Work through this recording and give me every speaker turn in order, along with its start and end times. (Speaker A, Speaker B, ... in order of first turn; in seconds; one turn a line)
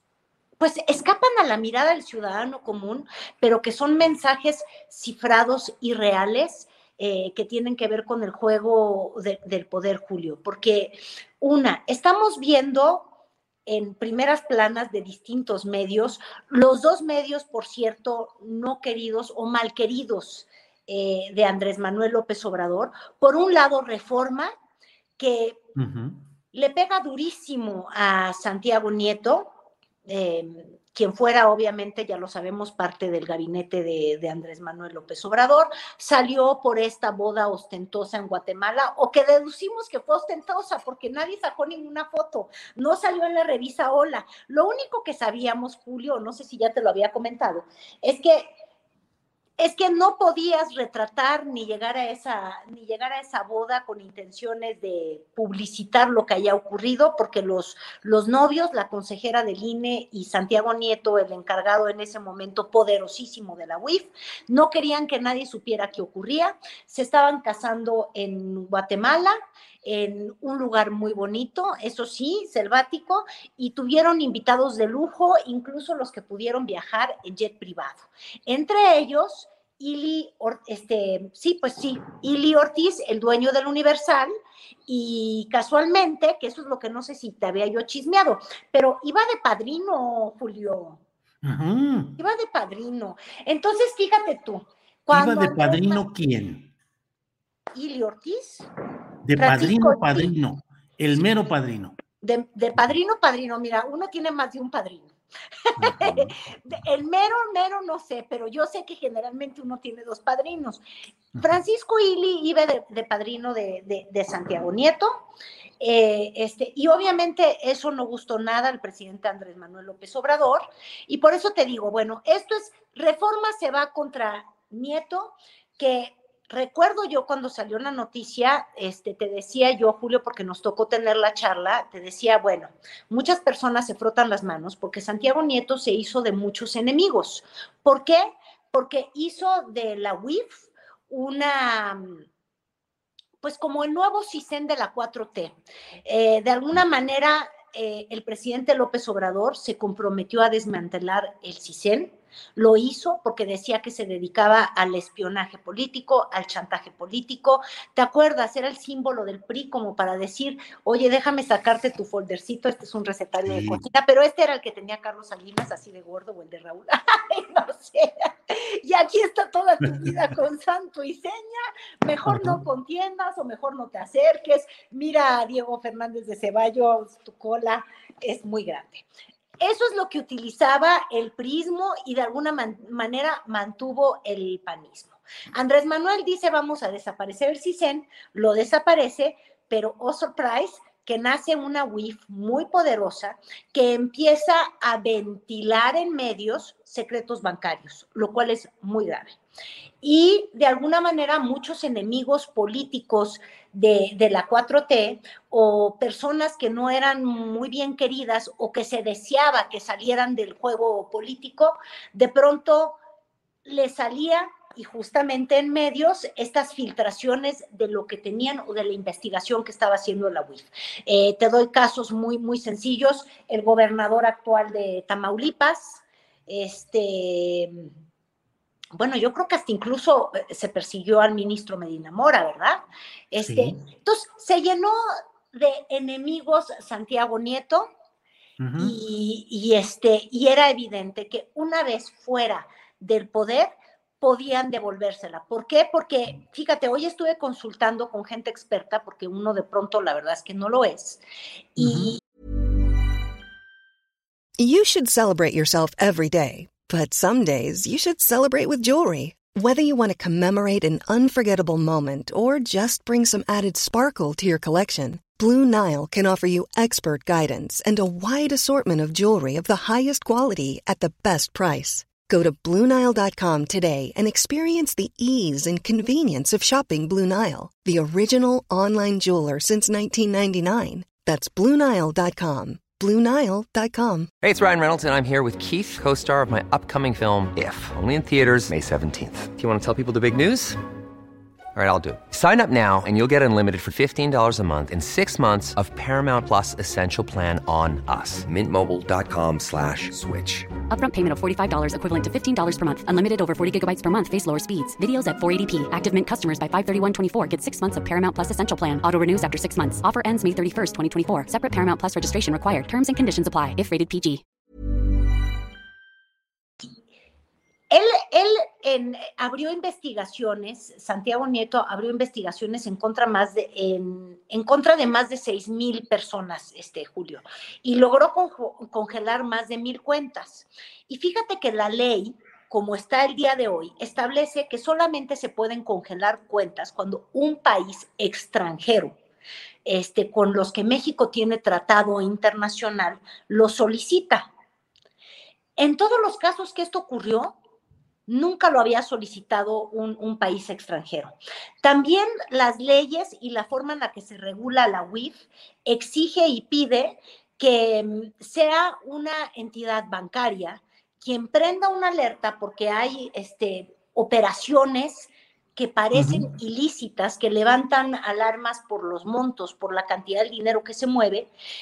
Speaker A: 0.6-13.1
Speaker A: 13.7-24.5
Speaker A: 25.2-25.6
Speaker B: 25.8-26.2
Speaker A: 26.5-29.5
Speaker A: 30.1-48.5
Speaker A: 49.6-84.3
Speaker A: 84.9-91.0
Speaker B: 91.4-92.2
Speaker A: 92.2-96.0
Speaker B: 95.1-96.7
Speaker A: 97.7-98.7
Speaker B: 99.2-102.0
Speaker A: 99.4-100.3
Speaker A: 102.2-105.1
Speaker A: 105.7-110.8
Speaker B: 105.8-106.3
Speaker A: 111.4-115.1
Speaker A: 115.8-142.2
Speaker A: 143.4-179.1
Speaker B: 163.5-163.8
Speaker B: 172.3-172.6
Speaker A: 179.6-199.4
Speaker A: 200.0-213.0
Speaker A: 213.7-227.9
Speaker A: 228.9-235.0
Speaker B: 233.4-233.8
Speaker A: 235.5-237.9
Speaker B: 238.6-238.9
Speaker A: 238.8-251.2
Speaker A: 251.8-252.2
Speaker B: 251.8-252.1
Speaker C: 254.6-284.3
Speaker D: 284.4-290.8
Speaker D: 291.8-300.7
Speaker E: 300.9-314.4
Speaker A: 317.9-339.2
Speaker A: 339.9-344.5
Speaker A: 345.8-347.6
Speaker A: 348.3-371.5
Speaker B: 366.1-366.5